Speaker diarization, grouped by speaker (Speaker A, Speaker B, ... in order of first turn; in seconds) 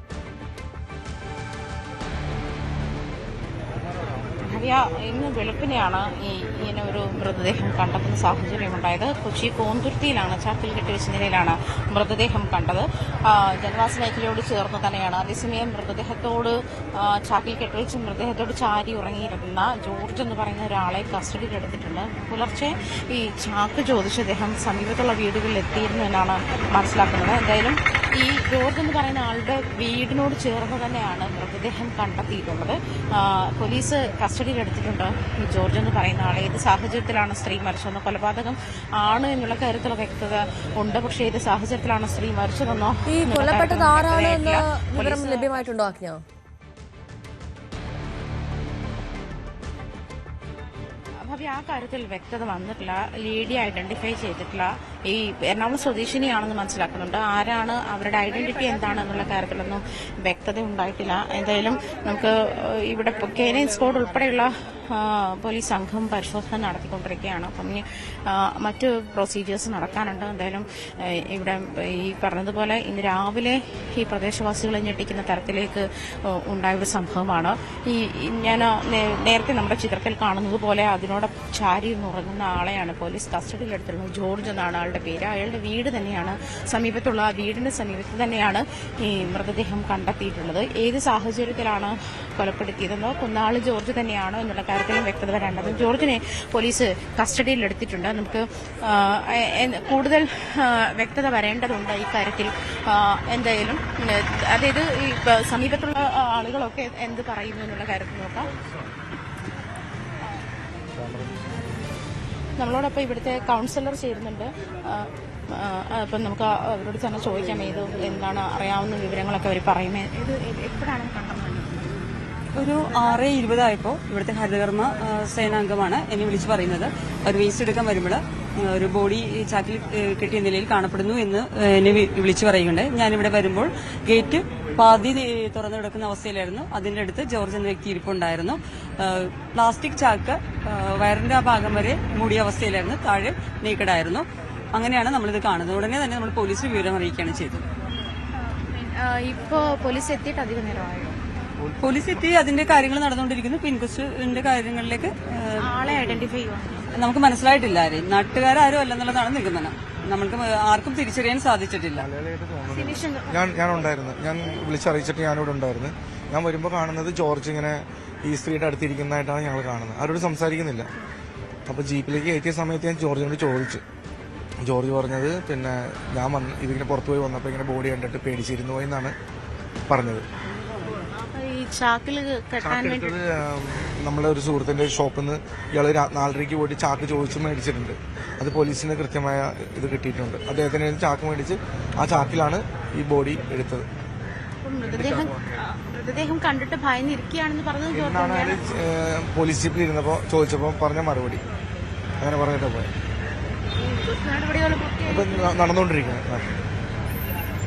Speaker A: 4.4-45.7, 51.2-108.5, 112.6-121.8, 148.6-151.2, 155.6-156.9, 162.7-163.5, 181.1-183.2, 194.6-198.8, 203.9-205.6
Speaker B: 43.1-46.2
Speaker C: 111.0-111.7, 161.9-170.9, 171.7-173.8, 174.6-179.1, 179.9-180.2, 182.6-193.9, 194.9-195.6, 197.9-201.4, 202.2-202.9, 205.1-206.5
Speaker D: 122.5-147.6, 151.8-155.9, 156.9-162.1